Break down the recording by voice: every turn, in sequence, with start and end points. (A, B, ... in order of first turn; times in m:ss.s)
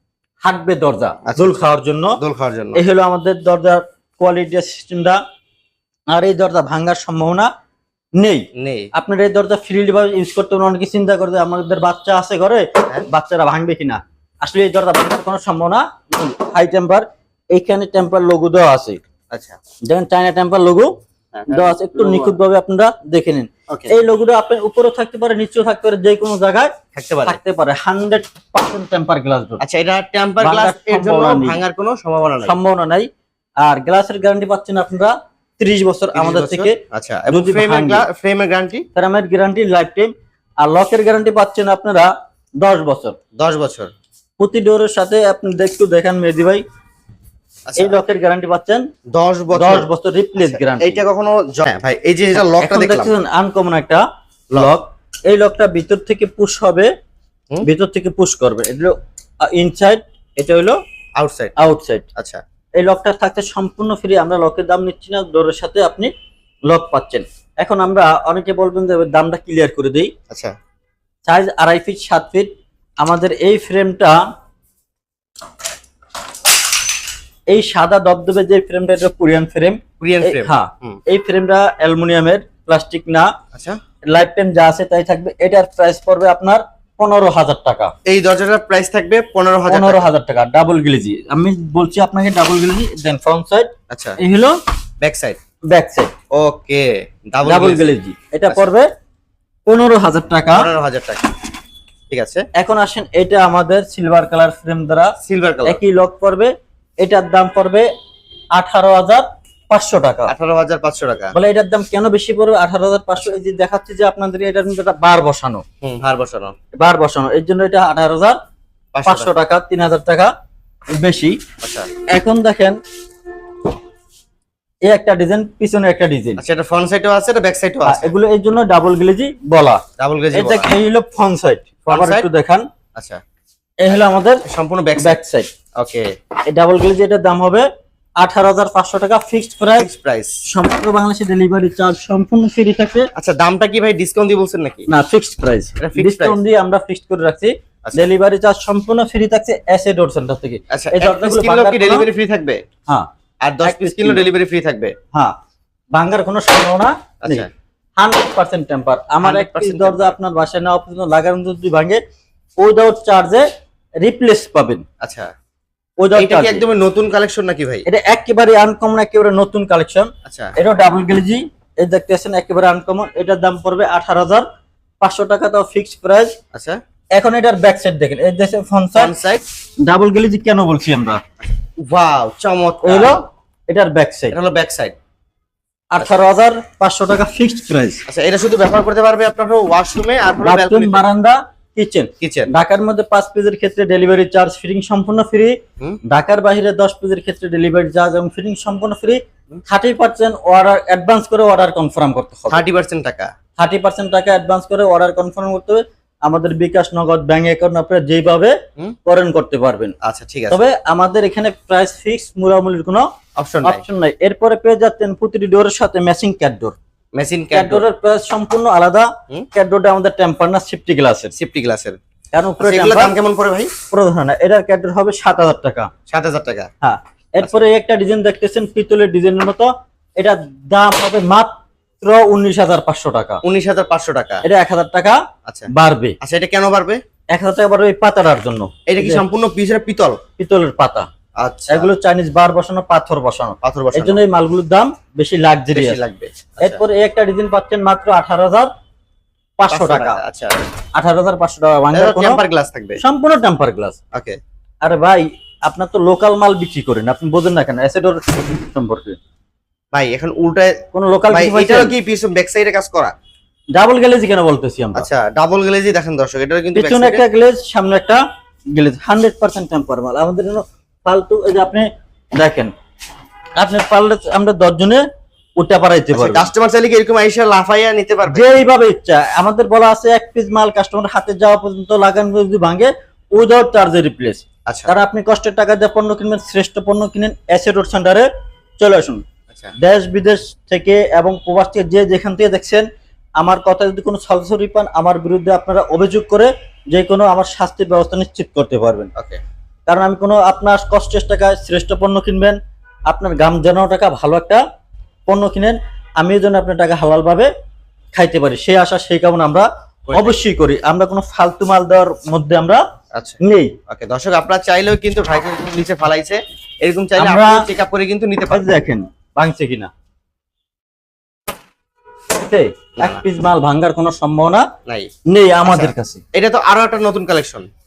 0:00.4-0:02.2 A
0:01.2-0:01.6 B
0:02.2-0:02.8 B
0:02.7-0:05.2 A
0:06.1-0:07.5 A
0:08.2-0:19.0 A
0:08.6-0:08.9 B
0:19.3-0:19.6 B
0:19.8-0:20.9 A
0:21.3-0:22.4 B
0:21.5-0:26.7 A
0:26.9-0:27.4 B
0:27.2-0:29.6 A
0:29.6-0:32.6 B
0:30.4-0:31.6 A
0:32.4-0:33.1 A
0:33.6-0:36.8 A
0:36.1-0:38.9 B
0:37.3-0:38.0 A
0:38.9-0:40.1 A
0:40.6-0:43.2 A
0:43.4-0:43.9 B
0:44.4-0:46.6 A
0:47.7-0:48.0 B
0:47.8-0:48.8 A
0:49.1-0:53.1 B
0:49.5-0:51.0 A
0:52.6-0:56.9 A
0:57.6-1:00.8 A
1:01.2-1:01.5 B
1:01.6-1:02.0 A
1:02.2-1:02.4 B
1:02.8-1:06.1 A
1:06.7-1:10.1 A
1:11.3-1:12.5 A
1:13.0-1:14.2 A
1:17.5-1:23.3 A
1:20.0-1:21.0 B
1:24.1-1:27.9 A
1:28.0-1:30.0 B
1:29.7-1:34.6 A
1:33.9-1:34.2 B
1:35.0-1:35.4 B
1:35.7-1:36.1 A
1:36.3-1:37.9 B
1:37.4-1:38.9 A
1:39.6-1:40.7 A
1:40.5-1:41.3 B
1:42.1-1:42.4 B
1:42.6-1:45.1 A
1:45.2-1:45.8 B
1:45.6-1:47.9 A
1:48.5-1:50.3 A
1:50.3-1:51.3 B
1:51.3-1:55.6 A
1:55.8-1:56.5 B
1:56.8-1:58.4 A
1:58.9-1:59.3 B
1:59.0-2:00.3 A
2:01.0-2:01.4 A
2:01.6-2:01.9 B
2:02.1-2:02.8 A
2:04.9-2:06.4 A
2:06.4-2:08.1 B
2:07.8-2:09.8 A
2:10.0-2:10.7 B
2:10.3-2:12.7 A
2:11.8-2:12.3 B
2:13.0-2:13.2 B
2:13.8-2:14.4 A
2:14.5-2:15.2 B
2:15.0-2:15.5 A
2:15.8-2:16.0 B
2:16.5-2:17.6 A
2:18.2-2:19.9 A
2:19.8-2:20.4 B
2:20.5-2:23.1 A
2:23.1-2:24.9 B
2:24.9-2:32.1 A
2:25.8-2:26.4 B
2:30.7-2:32.6 B
2:33.4-2:34.9 B
2:33.6-2:34.2 A
2:35.9-2:37.5 A
2:38.0-2:42.0 A
2:39.2-2:40.1 B
2:42.6-2:43.4 A
2:44.0-2:44.8 A
2:45.0-2:45.3 B
2:46.0-2:46.6 A
2:46.1-2:47.8 B
2:47.9-2:54.4 A
2:50.2-2:50.5 B
2:55.0-2:56.3 A
2:56.5-2:56.8 B
2:57.1-2:59.1 A
2:59.0-2:59.4 B
2:59.8-3:01.2 A
3:01.8-3:03.2 B
3:02.8-3:04.3 A
3:04.3-3:04.9 B
3:05.9-3:08.0 A
3:08.1-3:11.0 B
3:10.4-3:22.6 A
3:12.2-3:12.5 B
3:22.5-3:23.3 B
3:23.6-3:28.5 A
3:29.0-3:29.9 A
3:30.0-3:30.6 B
3:30.5-3:33.1 A
3:33.4-3:33.8 B
3:33.6-3:36.7 A
3:37.1-3:37.8 B
3:37.5-3:41.3 A
3:41.3-3:42.0 B
3:42.3-3:43.1 A
3:42.6-3:43.7 B
3:43.9-3:45.9 A
3:46.1-3:46.7 B
3:46.8-3:53.4 A
3:53.4-3:54.4 B
3:54.4-3:55.2 A
3:55.7-3:56.2 A
3:56.2-3:57.0 B
3:57.3-3:59.2 A
3:58.9-4:00.2 B
4:00.4-4:01.1 A
4:01.4-4:01.9 B
4:01.7-4:06.0 A
4:03.6-4:04.2 B
4:05.7-4:06.8 B
4:06.6-4:08.7 A
4:09.6-4:10.2 A
4:09.7-4:10.6 B
4:11.0-4:12.4 A
4:11.9-4:13.0 B
4:13.0-4:14.0 A
4:14.1-4:14.4 B
4:14.8-4:19.2 A
4:19.9-4:20.8 B
4:20.9-4:21.9 A
4:21.3-4:23.1 B
4:23.7-4:25.1 A
4:24.9-4:27.2 B
4:26.7-4:28.2 A
4:28.7-4:32.7 A
4:33.6-4:35.0 A
4:35.6-4:36.5 A
4:36.1-4:38.4 B
4:38.3-4:48.3 A
4:44.7-4:44.9 B
4:48.8-4:49.2 A
4:49.8-4:52.8 A
4:53.4-4:59.1 A
4:59.1-4:59.4 B
4:59.9-5:02.6 A
5:03.1-5:04.6 A
5:05.3-5:07.5 A
5:08.2-5:12.8 A
5:10.1-5:10.4 B
5:13.1-5:18.7 B
5:13.4-5:13.7 A
5:17.2-5:17.6 A
5:18.5-5:19.9 A
5:22.4-5:24.7 A
5:24.8-5:25.1 B
5:25.3-5:26.2 A
5:25.6-5:27.7 B